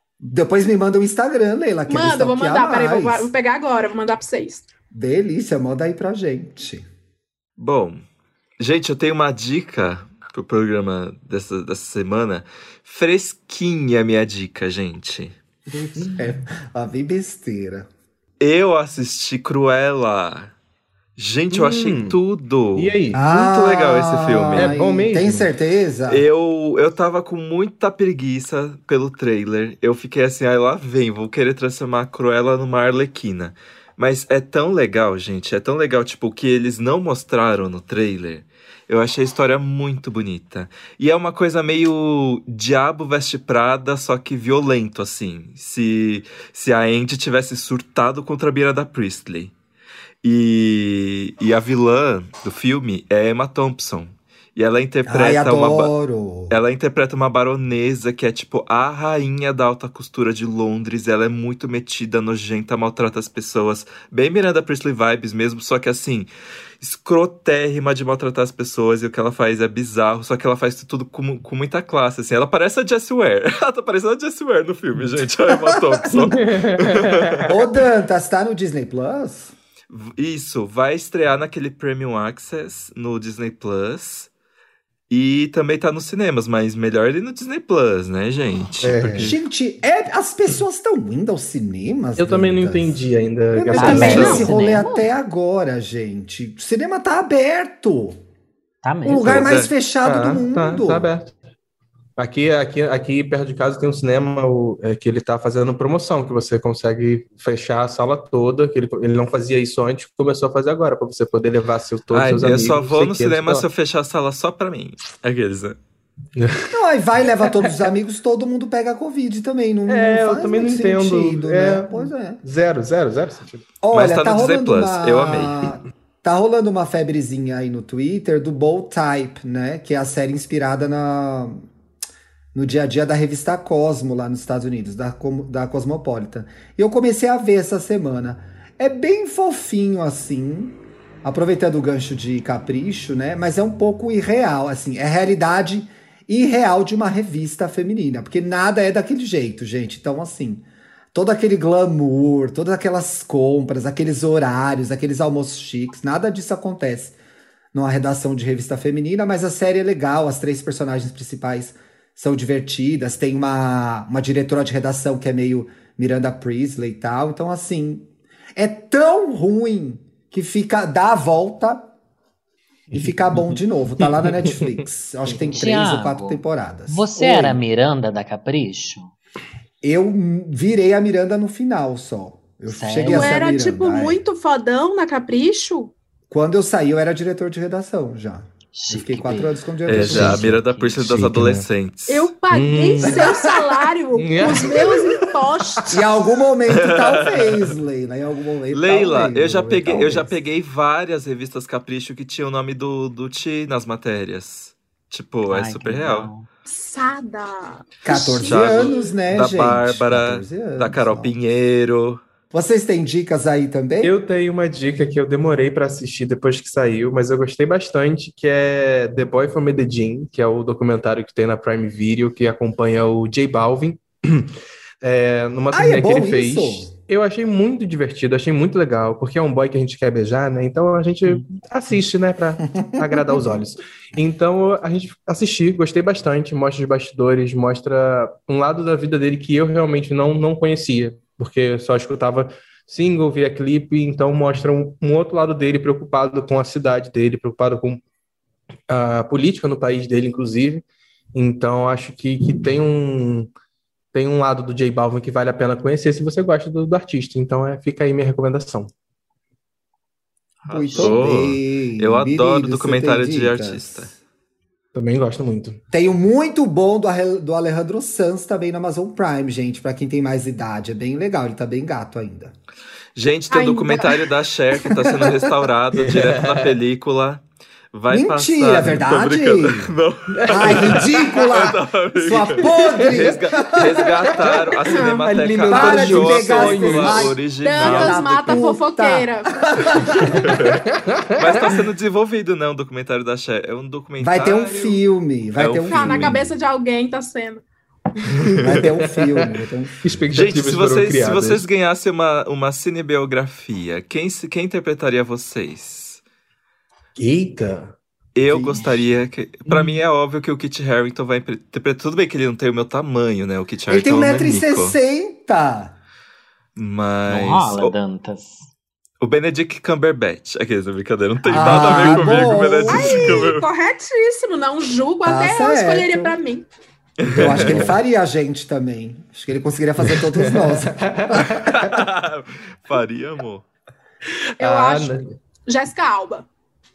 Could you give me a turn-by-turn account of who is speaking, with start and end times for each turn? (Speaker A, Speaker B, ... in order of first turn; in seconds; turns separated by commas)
Speaker A: 0.2-3.3, Speaker B: 1.9-4.7, Speaker A: 4.9-6.8, Speaker C: 7.6-8.0, Speaker C: 8.6-15.4, Speaker D: 15.9-16.2, Speaker A: 16.1-17.9, Speaker C: 18.4-20.5, Speaker C: 21.2-24.8, Speaker D: 21.5-22.2, Speaker D: 22.8-23.3, Speaker A: 23.1-26.2, Speaker D: 24.5-25.5, Speaker C: 26.1-49.5, Speaker C: 50.2-55.9, Speaker A: 55.1-56.6, Speaker C: 56.5-66.3, Speaker C: 66.8-77.5, Speaker D: 76.1-77.5, Speaker A: 77.5-79.5, Speaker C: 79.9-84.3, Speaker C: 85.1-89.4, Speaker D: 88.8-89.3, Speaker A: 89.1-98.2, Speaker D: 92.2-94.5, Speaker E: 93.8-95.1, Speaker B: 93.8-94.5, Speaker E: 98.8-99.5, Speaker A: 99.0-101.1, Speaker C: 99.2-99.7, Speaker D: 100.0-101.3, Speaker D: 102.2-113.7, Speaker C: 112.1-115.8, Speaker D: 116.4-116.8, Speaker A: 116.7-122.4, Speaker D: 117.5-117.8, Speaker D: 119.9-123.7, Speaker A: 123.8-131.7, Speaker C: 123.9-125.8, Speaker A: 132.5-157.2, Speaker A: 157.7-171.9, Speaker D: 172.9-174.7, Speaker A: 172.9-177.6, Speaker E: 175.3-179.1, Speaker A: 179.8-184.2, Speaker E: 182.7-183.4, Speaker B: 183.1-185.9, Speaker A: 186.3-190.4, Speaker E: 188.7-191.0, Speaker C: 189.9-192.3, Speaker D: 189.9-191.7, Speaker B: 192.1-196.1, Speaker D: 192.5-193.4, Speaker A: 193.0-193.4, Speaker D: 194.2-195.8, Speaker A: 195.9-200.3, Speaker C: 196.7-197.7, Speaker C: 198.7-206.3, Speaker E: 205.5-206.5, Speaker B: 206.7-209.2, Speaker A: 208.1-211.3, Speaker C: 208.4-212.2, Speaker A: 212.5-214.2, Speaker D: 214.0-248.0, Speaker A: 225.7-226.9, Speaker A: 233.0-233.4, Speaker D: 248.9-253.5, Speaker D: 254.1-258.9, Speaker C: 260.7-264.1, Speaker E: 260.7-261.3, Speaker A: 260.7-264.2, Speaker D: 264.9-265.8, Speaker A: 265.9-272.5, Speaker C: 273.2-288.7, Speaker B: 273.5-274.3, Speaker A: 274.9-275.4, Speaker D: 275.9-276.8, Speaker A: 278.1-279.9, Speaker D: 280.3-281.2, Speaker A: 280.5-284.3, Speaker D: 282.6-287.4, Speaker B: 284.8-285.3, Speaker A: 285.7-290.6, Speaker B: 287.6-289.6, Speaker D: 290.1-291.9, Speaker C: 290.4-290.8, Speaker C: 291.4-295.0, Speaker A: 294.2-296.5, Speaker C: 295.6-296.4, Speaker B: 295.9-297.6, Speaker D: 298.3-301.6, Speaker C: 298.5-298.8, Speaker A: 298.6-300.0, Speaker C: 300.3-306.2, Speaker D: 307.2-308.0, Speaker C: 308.4-314.9, Speaker A: 308.5-308.9, Speaker D: 309.7-310.0, Speaker A: 313.9-316.0, Speaker C: 316.8-317.9, Speaker E: 317.3-318.7, Speaker C: 319.2-323.7, Speaker A: 321.5-323.5, Speaker D: 321.6-322.2, Speaker B: 322.3-326.7, Speaker A: 325.2-326.4, Speaker C: 327.2-327.9, Speaker D: 327.3-328.0, Speaker A: 327.3-331.6, Speaker D: 330.0-332.0, Speaker C: 331.6-333.6, Speaker D: 334.6-335.4, Speaker B: 334.6-336.5